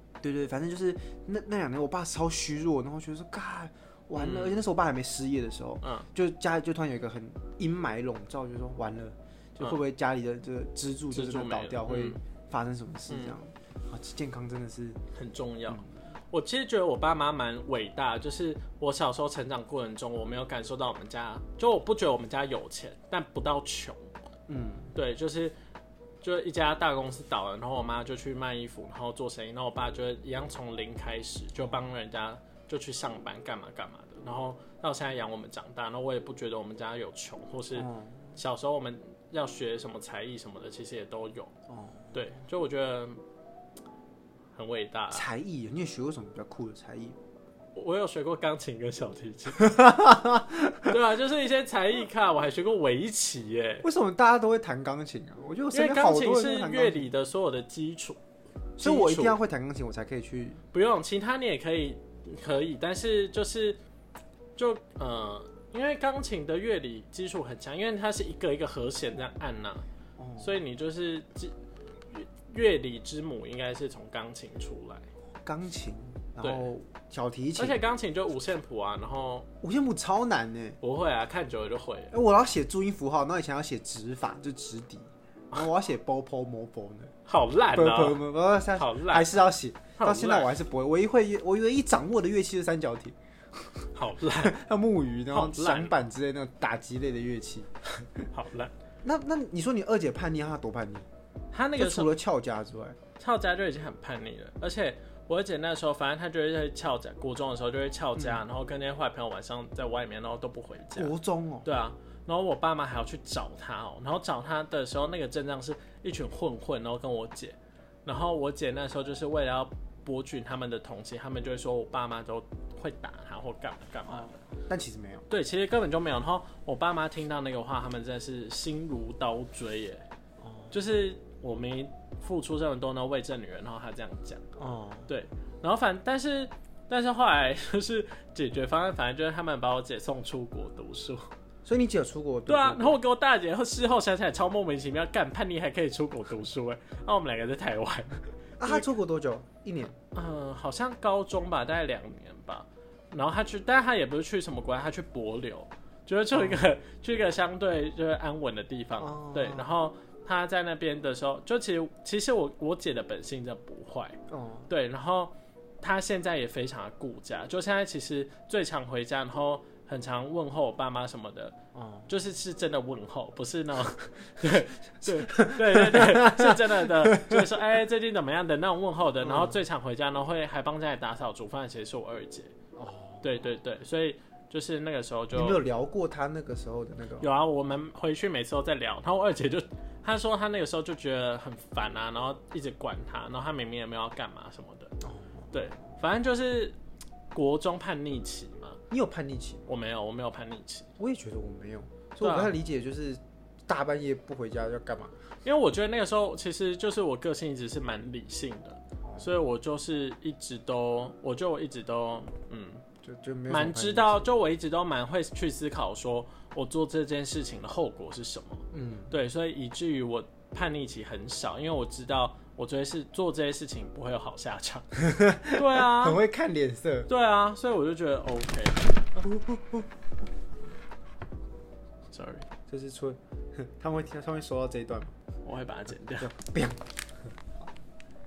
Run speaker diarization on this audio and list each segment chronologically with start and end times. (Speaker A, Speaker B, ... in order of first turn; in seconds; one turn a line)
Speaker A: 0.2-15.0
Speaker B: 4.2-4.6
Speaker B: 5.8-6.1
Speaker B: 11.1-12.2
Speaker B: 13.1-13.3
Speaker B: 15.1-24.0
Speaker A: 24.5-24.9
Speaker B: 24.9-25.5
Speaker B: 26.2-41.5
Speaker A: 37.7-38.3
Speaker A: 41.7-42.1
Speaker B: 42.1-43.2
Speaker B: 44.5-45.2
Speaker A: 45.1-47.2
Speaker B: 47.7-49.8
Speaker A: 49.6-50.9
Speaker B: 50.9-53.9
Speaker A: 53.8-57.1
Speaker B: 55.7-58.2
Speaker A: 58.8-60.6
Speaker B: 58.8-59.4
Speaker B: 60.7-63.8
Speaker B: 64.5-69.8
Speaker A: 70.2-70.5
Speaker B: 70.4-71.5
Speaker B: 72.1-75.1
Speaker A: 75.4-77.8
Speaker B: 76.4-76.7
Speaker B: 77.6-79.5
Speaker A: 79.6-80.8
Speaker B: 80.8-82.1
Speaker A: 82.1-87.1
Speaker B: 87.2-88.2
Speaker A: 87.7-93.2
Speaker B: 88.7-89.3
Speaker B: 90.0-90.5
Speaker B: 93.9-94.6
Speaker A: 94.3-97.7
Speaker B: 95.3-95.9
Speaker B: 98.0-98.7
Speaker A: 99.0-101.1
Speaker B: 101.5-102.1
Speaker A: 101.8-103.0
Speaker B: 103.2-111.1
Speaker A: 110.9-111.7
Speaker B: 111.6-124.4
Speaker A: 124.1-125.2
Speaker B: 125.3-130.0
Speaker A: 130.4-130.7
Speaker B: 130.7-134.4
Speaker A: 134.6-135.1
Speaker B: 135.1-141.3
Speaker A: 141.6-143.0
Speaker B: 142.5-148.8
Speaker A: 148.6-149.9
Speaker B: 150.1-164.2
Speaker A: 156.3-156.6
Speaker A: 159.0-159.7
Speaker A: 164.3-164.7
Speaker B: 164.7-171.6
Speaker A: 171.7-172.1
Speaker B: 172.1-182.5
Speaker A: 175.0-177.4
Speaker A: 179.2-179.6
Speaker A: 182.8-183.2
Speaker B: 183.2-185.6
Speaker A: 185.3-187.3
Speaker B: 187.2-194.9
Speaker A: 195.0-195.6
Speaker B: 195.5-196.8
Speaker B: 197.3-198.8
Speaker A: 198.9-199.6
Speaker B: 199.7-200.9
Speaker A: 201.0-205.1
Speaker B: 202.2-202.5
Speaker B: 205.4-212.8
Speaker A: 213.0-214.3
Speaker B: 213.5-225.0
Speaker A: 218.7-219.1
Speaker A: 225.0-227.1
Speaker B: 225.5-226.2
Speaker B: 227.1-229.2
Speaker A: 229.2-229.9
Speaker B: 232.1-232.5
Speaker A: 232.7-235.1
Speaker B: 235.4-236.3
Speaker A: 236.2-236.9